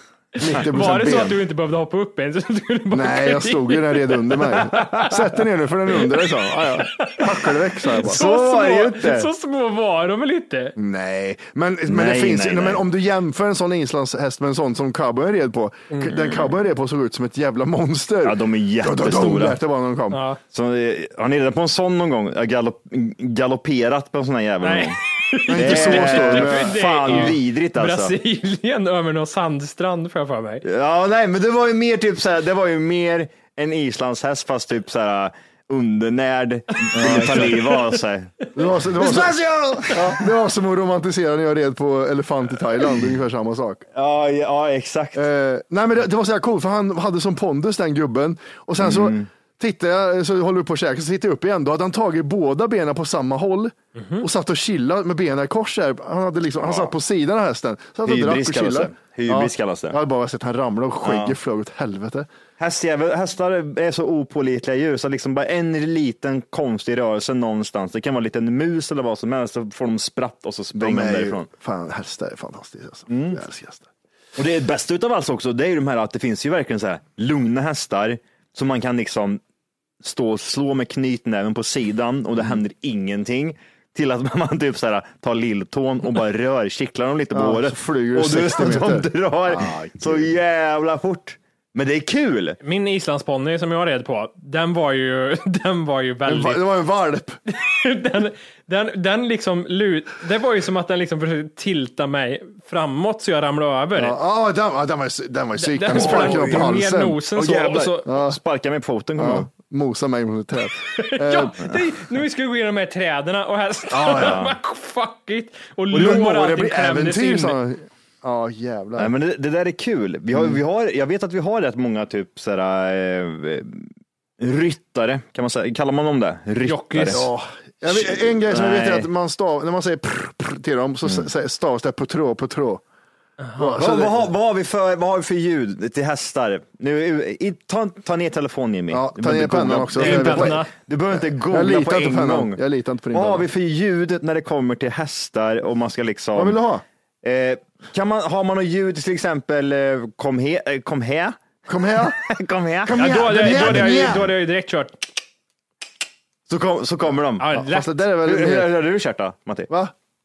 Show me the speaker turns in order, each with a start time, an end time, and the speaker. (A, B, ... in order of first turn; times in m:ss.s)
0:00.3-0:05.3 A
0:00.4-0:01.4 B
0:02.9-0:08.2 B
0:06.5-0:10.8 A
0:08.0-0:09.3 C
0:10.8-0:20.2 B
0:11.9-0:12.8 C
0:16.1-0:16.5 C
0:18.2-0:19.6 C
0:20.1-0:20.4 A
0:20.5-0:25.0 C
0:24.6-0:30.6 A
0:25.5-0:27.3 B
0:25.5-0:28.1 C
0:30.6-0:40.2 C
0:36.8-0:38.0 A
0:36.9-0:37.5 B
0:38.5-0:43.9 B
0:43.9-0:45.2 C
0:45.1-1:02.3 B
0:48.8-0:49.3 C
0:54.0-0:54.2 A
0:56.6-0:56.9 C
0:58.0-1:00.0 C
1:01.0-1:01.3 C
1:02.6-1:11.5 C
1:10.7-1:13.9 B
1:13.1-1:13.4 C
1:14.4-1:19.4 C
1:20.0-1:32.6 C
1:27.3-1:30.3 B
1:32.6-1:36.6 A
1:36.2-1:37.4 B
1:37.5-1:44.2 A
1:43.9-1:47.2 B
1:45.6-1:48.1 A
1:45.9-1:46.6 C
1:47.4-1:49.5 C
1:48.0-1:48.4 B
1:49.2-1:51.6 B
1:51.0-1:57.6 A
1:53.9-1:54.4 B
1:54.1-1:54.6 C
1:55.9-1:56.2 C
1:55.9-1:59.1 B
1:59.0-2:03.9 C
2:00.3-2:00.6 B
2:04.4-2:07.3 C
2:06.6-2:07.2 A
2:07.1-2:12.8 B
2:07.9-2:09.1 C
2:13.6-2:14.3 B
2:13.8-2:22.6 C
2:18.9-2:23.5 B
2:19.9-2:20.7 A
2:23.1-2:26.6 C
2:26.3-2:26.8 B
2:27.2-2:31.4 C
2:31.7-2:32.2 B
2:31.9-2:34.2 C
2:32.8-2:34.3 B
2:32.9-2:35.1 A
2:36.5-2:37.6 C
2:37.4-2:37.9 A
2:37.5-2:38.7 B
2:38.2-2:39.7 C